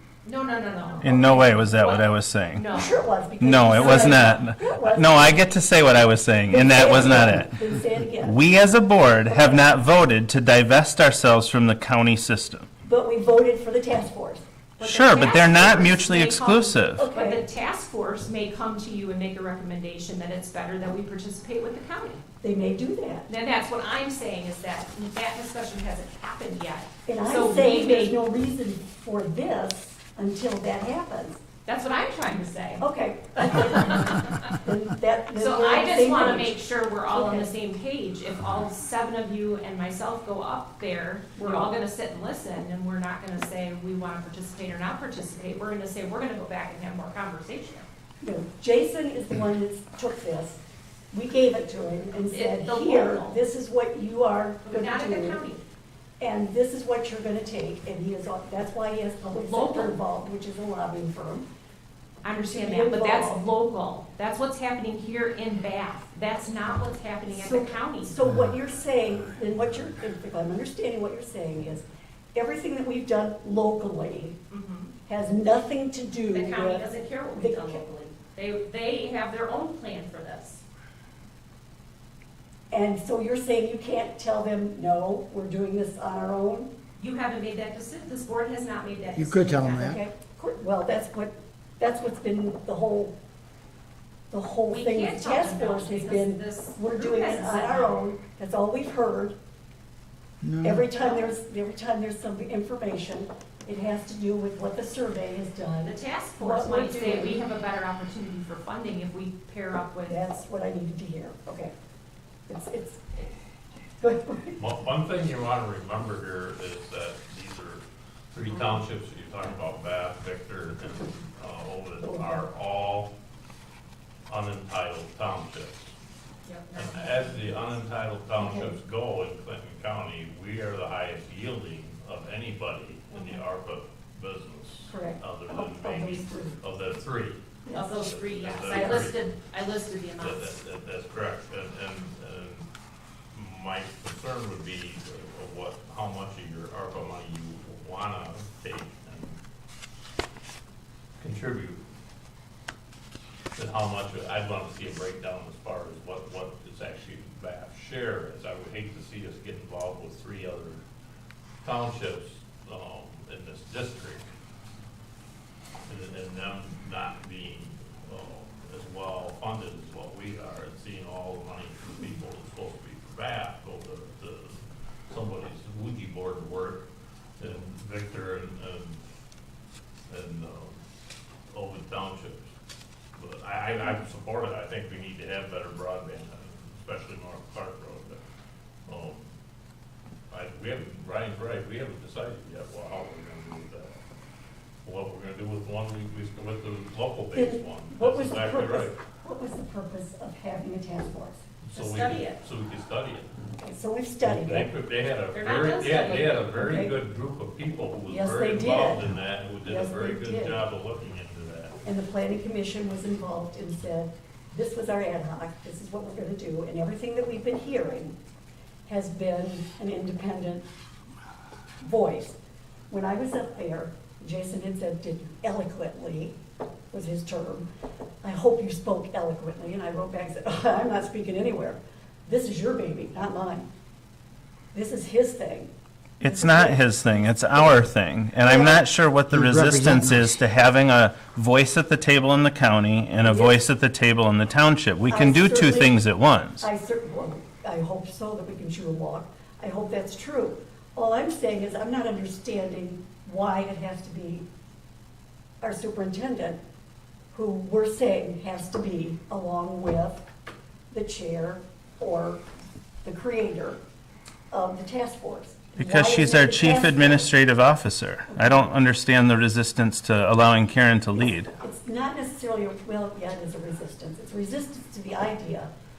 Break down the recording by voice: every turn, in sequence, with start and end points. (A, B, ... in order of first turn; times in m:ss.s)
0:00.2-0:03.0 A
0:01.0-0:02.7 B
0:02.7-0:05.3 C
0:03.4-0:07.6 B
0:03.7-0:04.4 A
0:06.5-0:08.4 C
0:08.1-0:12.7 B
0:09.3-0:09.7 C
0:12.8-0:14.4 C
0:14.8-0:22.2 A
0:14.8-0:17.0 B
0:17.0-0:17.4 C
0:22.4-0:23.3 C
0:23.3-0:28.1 A
0:27.1-0:31.4 C
0:31.6-0:32.8 A
0:32.8-0:36.5 C
0:33.5-0:34.4 A
0:35.3-0:47.8 A
0:37.1-0:37.5 C
0:41.4-0:41.7 C
0:48.2-0:50.6 C
0:51.1-0:55.4 C
0:52.3-0:53.4 A
0:54.6-0:55.6 A
0:56.2-1:01.5 C
0:59.4-0:59.9 A
1:02.2-1:08.1 A
1:02.4-1:03.4 C
1:07.3-1:14.4 C
1:14.5-1:14.9 A
1:15.1-1:17.8 C
1:16.3-1:20.6 A
1:22.7-1:26.7 C
1:27.0-1:29.7 A
1:29.1-1:30.0 D
1:29.7-1:33.1 C
1:34.3-1:39.3 C
1:34.7-1:38.0 A
1:40.4-1:40.9 D
1:40.6-1:47.4 C
1:45.8-1:50.2 A
1:50.1-1:51.7 C
1:52.5-1:53.3 C
1:54.0-1:54.6 C
1:54.6-2:03.1 E
2:02.0-2:02.5 C
2:04.3-2:05.9 E
2:06.4-2:07.7 A
2:06.7-2:19.3 E
2:08.4-2:08.7 C
2:14.9-2:16.6 C
2:17.7-2:20.6 A
2:20.2-2:22.7 E
2:23.3-2:29.4 E
2:31.2-2:31.8 E
2:33.6-2:40.8 E
2:41.6-2:44.3 E
2:45.8-2:56.8 E
2:57.4-2:59.0 E
3:00.1-3:00.8 E
3:01.5-3:02.5 E
3:03.2-3:08.2 E
3:08.9-3:09.3 E
3:10.3-3:14.0 E
3:14.8-3:18.9 E
3:17.3-3:21.4 C
3:21.6-3:23.3 E
3:21.7-3:22.4 A
3:23.6-3:24.7 C
3:24.2-3:31.8 E
3:25.3-3:26.5 A
3:26.5-3:26.9 C
3:28.1-3:30.6 C
3:31.8-3:38.1 C
3:38.8-3:40.7 C
3:41.8-3:42.4 C
3:42.9-3:46.4 C
3:46.9-3:47.6 C
3:48.2-3:53.7 C
3:54.7-3:56.8 C
3:56.2-4:06.7 B
3:58.4-3:58.8 C
3:59.3-4:00.3 D
4:03.2-4:03.6 C
4:05.1-4:06.0 C
4:06.6-4:14.4 C
4:15.6-4:16.6 C
4:17.3-4:20.2 C
4:20.9-4:22.4 C
4:23.0-4:23.8 C
4:24.5-4:27.3 C
4:25.8-4:31.5 B
4:28.3-4:28.7 C
4:31.2-4:35.7 C